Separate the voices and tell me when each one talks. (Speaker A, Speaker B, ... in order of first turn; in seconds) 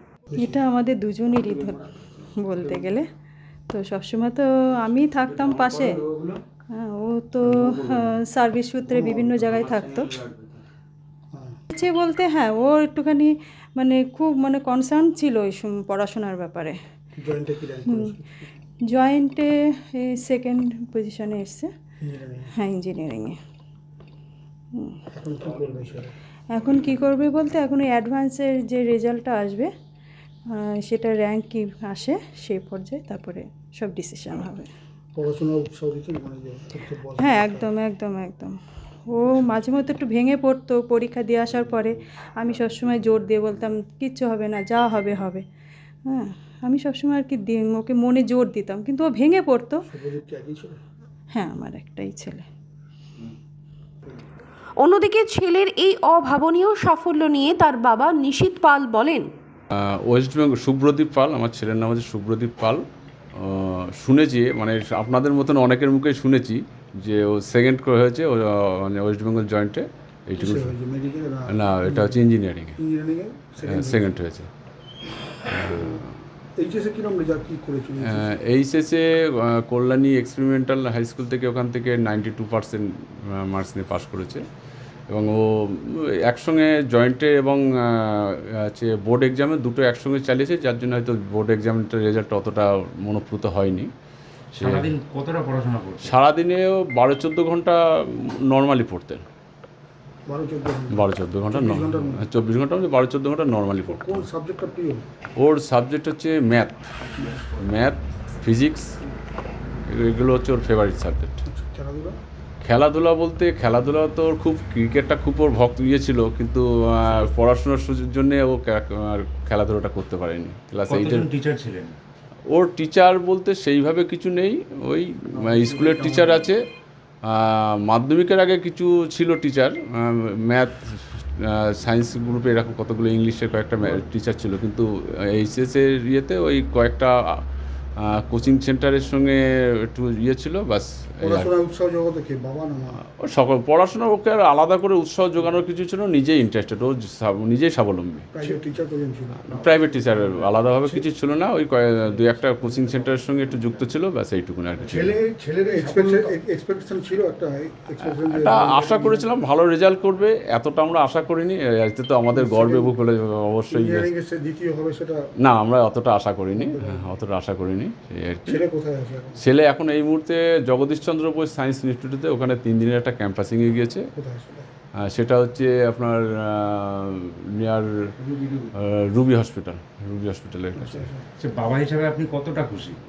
Speaker A: 0.3-0.6, 8.9-9.2, 11.3-11.6, 17.2-18.5, 22.0-22.5, 25.1-26.1, 35.1-37.7, 49.9-50.8, 70.4-72.2, 72.8-74.1, 75.7-76.0, 76.6-78.3, 100.2-102.2, 103.8-105.0, 111.5-112.2, 141.2-143.0, 148.3-149.7, 154.9-159.3, 162.3-162.9, 163.7-165.2, 166.6-167.1, 168.4-169.4, 174.2-174.7, 180.8-181.2
Speaker B: 0.3-1.9, 2.4-3.1, 3.7-6.0, 6.7-10.2, 11.7-16.8, 18.9-21.7, 22.5-23.4, 24.7-25.0, 26.5-29.7, 30.5-34.7, 37.2-45.4, 46.0-49.8, 51.3-52.5
Speaker C: 54.8-59.3
Speaker D: 59.8-62.8, 63.4-70.8, 71.5-72.8, 73.7-74.5, 75.5-76.0, 78.0-84.4, 85.1-93.9, 94.5-94.9, 96.0-99.2, 100.9-104.3, 105.4-106.9, 107.5-109.0, 109.9-111.4, 112.6-121.3, 122.5-126.6, 127.2-137.4, 138.0-141.5, 143.2-148.3, 149.4-155.2, 158.0-164.1, 165.4-168.6, 169.4-174.1, 175.0-178.1, 178.8-181.1
Speaker E: 94.6-96.2, 120.9-122.0, 155.7-156.2, 178.2-178.7, 181.4-183.0